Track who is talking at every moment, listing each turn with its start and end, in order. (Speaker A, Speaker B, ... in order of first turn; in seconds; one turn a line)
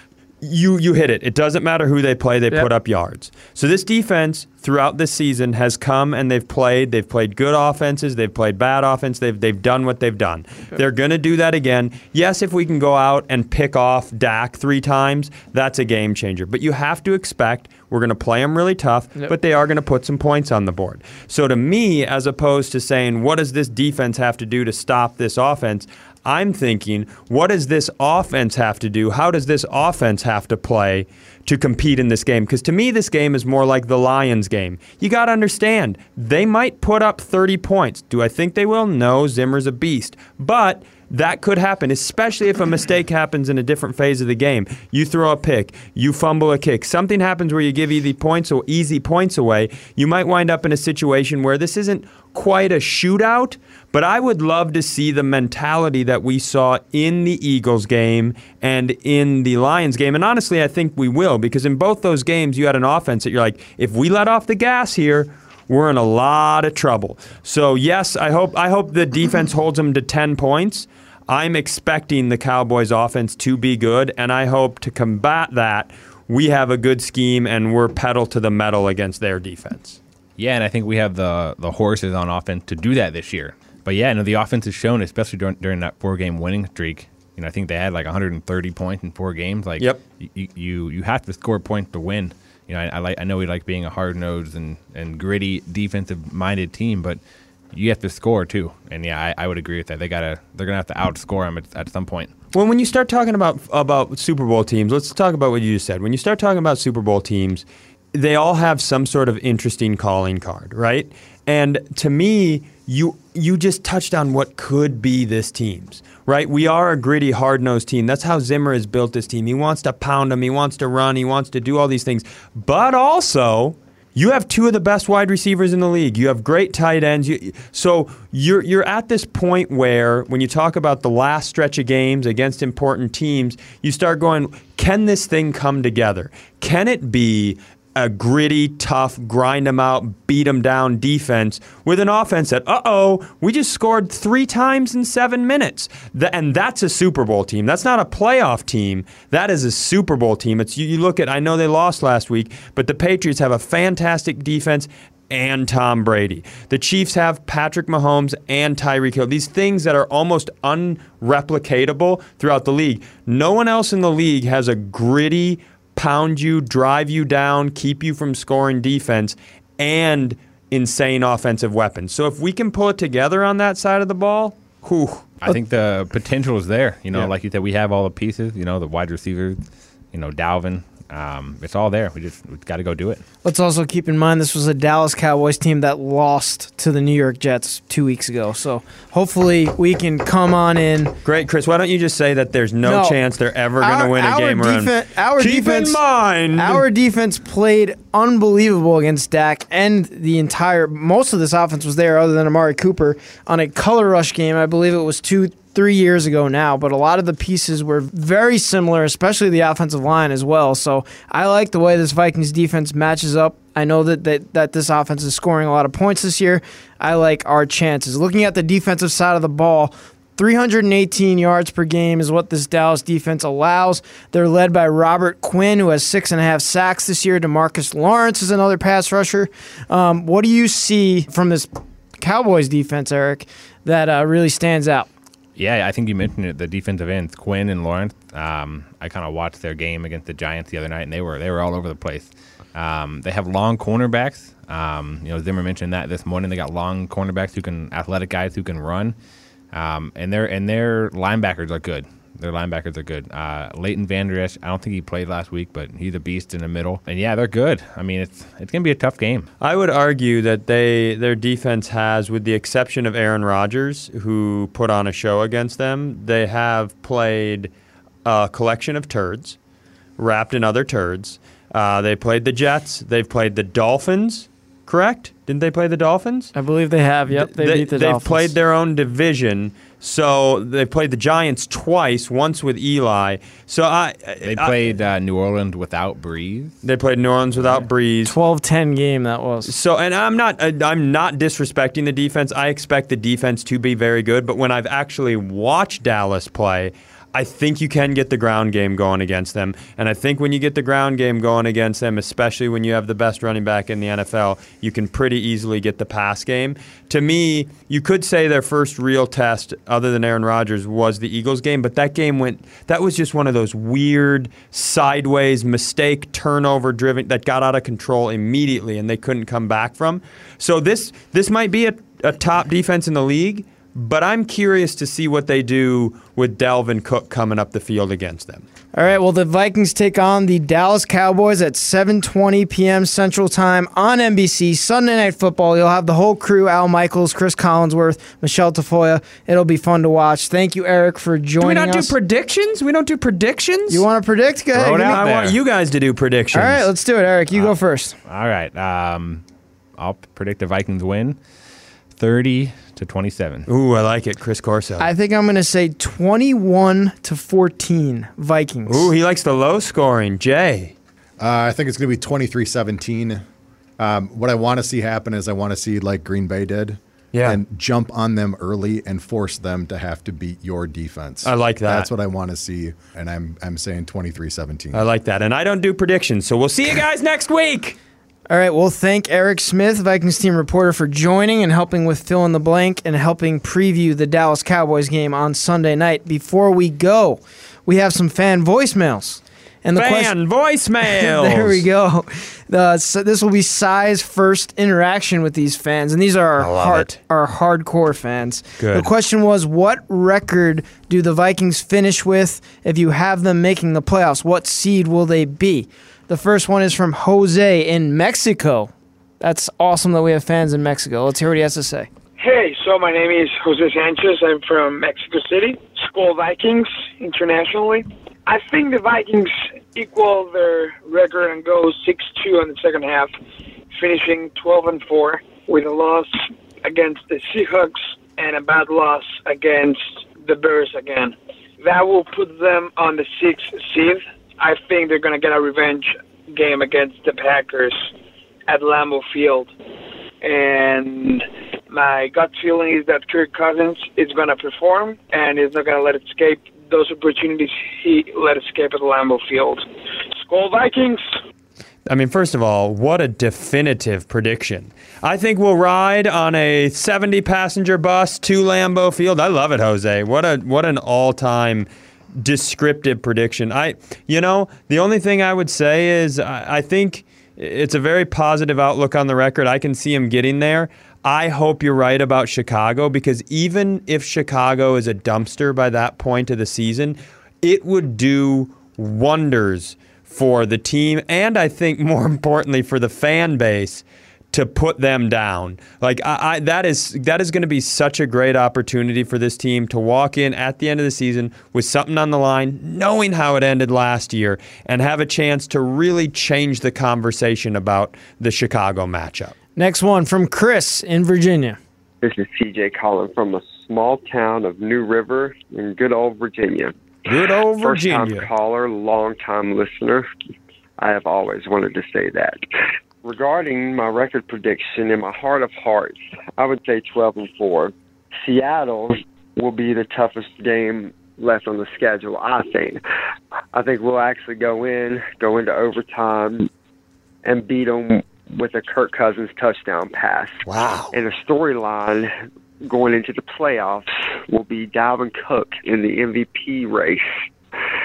Speaker A: 0.4-80.0
Speaker B: 80.4-97.2
Speaker B: 97.7-102.3
Speaker A: 102.5-175.3
Speaker B: 175.4-183.2
Speaker C: 183.4-191.1
Speaker A: 191.2-196.8
Speaker C: 192.8-193.2
Speaker C: 193.8-196.0
Speaker C: 196.6-231.7
Speaker C: 232.2-235.1
Speaker B: 235.6-249.2
Speaker B: 249.7-259.5
Speaker A: 259.6-267.7
Speaker A: 268.2-269.6
Speaker A: 270.2-276.5
Speaker C: 276.5-278.5
Speaker A: 277.3-284.8
Speaker B: 284.4-286.7
Speaker A: 286.8-288.3
Speaker B: 287.5-287.9
Speaker C: 288.2-289.7
Speaker A: 289.6-328.6
Speaker C: 328.9-342.1
Speaker A: 341.6-344.0
Speaker C: 343.9-345.2
Speaker B: 344.7-345.6
Speaker A: 345.1-346.8
Speaker C: 346.5-348.1
Speaker B: 348.2-349.4
Speaker B: 350.0-351.4
Speaker B: 352.1-353.7
Speaker A: 353.7-355.1
Speaker C: 355.0-359.1
Speaker A: 358.9-360.9
Speaker D: 361.4-363.4
Speaker D: 364.0-375.1
Speaker A: 367.3-367.6
Speaker A: 371.4-372.1
Speaker A: 374.9-378.0
Speaker C: 378.5-390.3
Speaker A: 389.9-391.8
Speaker C: 391.1-412.1
Speaker A: 396.6-397.2
Speaker A: 398.8-399.1
Speaker E: 412.4-423.3
Speaker E: 423.9-438.1
Speaker E: 438.7-439.7
Speaker E: 440.4-449.8
Speaker E: 450.4-451.2
Speaker A: 452.1-461.9
Speaker A: 462.4-499.5
Speaker C: 499.8-501.8
Speaker F: 502.2-510.2
Speaker A: 507.3-508.5
Speaker F: 511.0-512.6
Speaker F: 513.2-523.0
Speaker F: 523.7-526.7
Speaker F: 527.4-530.6
Speaker A: 530.6-531.1
Speaker F: 531.1-532.3
Speaker F: 532.8-537.2